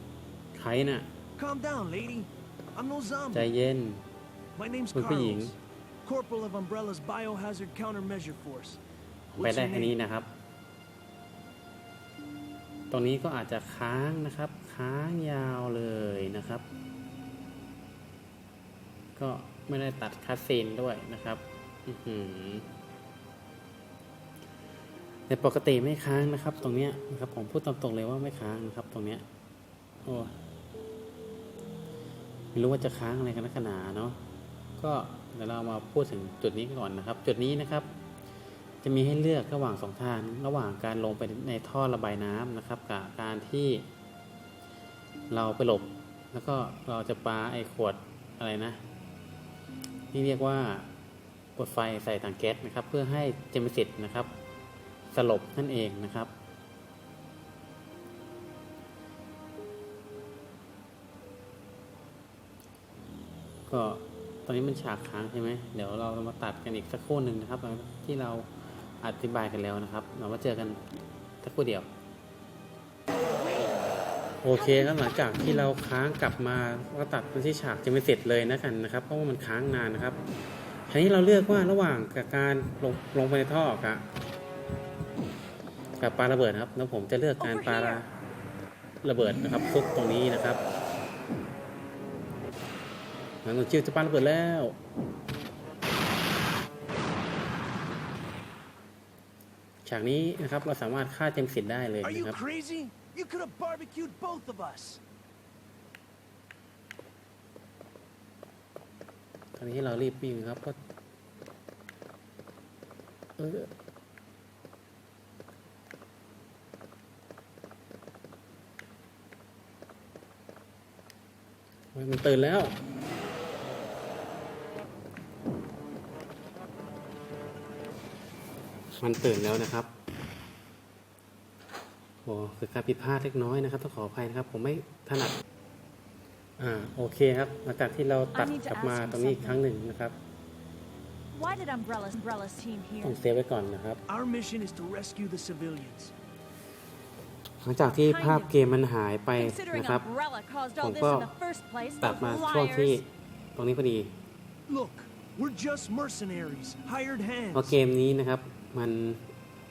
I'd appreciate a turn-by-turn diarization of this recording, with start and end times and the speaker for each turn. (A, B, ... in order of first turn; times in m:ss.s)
0:00.5-0:01.1 A
0:01.4-0:03.5 B
0:03.3-0:04.1 A
0:04.6-0:08.8 B
0:04.9-0:05.5 A
0:09.3-0:10.3 A
0:09.4-0:10.0 B
0:12.9-0:16.6 A
0:19.2-0:22.7 A
0:25.3-0:29.2 A
0:30.0-0:30.4 A
0:32.5-0:34.2 A
0:34.8-0:37.9 A
0:38.8-0:43.9 A
0:45.3-0:48.8 A
0:50.1-0:50.9 A
0:51.6-0:54.3 A
0:55.1-0:56.3 A
1:03.7-1:10.8 A
1:11.4-1:11.9 A
1:14.4-1:20.2 A
1:20.9-1:24.1 A
1:26.0-1:28.1 A
1:27.4-1:28.0 C
1:29.0-1:30.6 A
1:33.4-1:34.8 A
1:39.8-1:42.4 A
1:42.0-1:45.0 B
1:49.6-1:50.8 A
1:53.4-1:53.7 A
2:01.9-2:02.8 A
2:09.0-2:09.9 A
2:12.2-2:15.4 A
2:16.6-2:20.2 A
2:18.3-2:19.6 C
2:21.3-2:23.2 C
2:23.0-2:24.0 A
2:24.1-2:26.1 B
2:27.6-2:30.0 A
2:27.8-2:28.5 C
2:29.4-2:33.0 C
2:30.8-2:31.3 A
2:32.0-2:34.2 A
2:34.7-2:37.7 B
2:37.5-2:39.3 A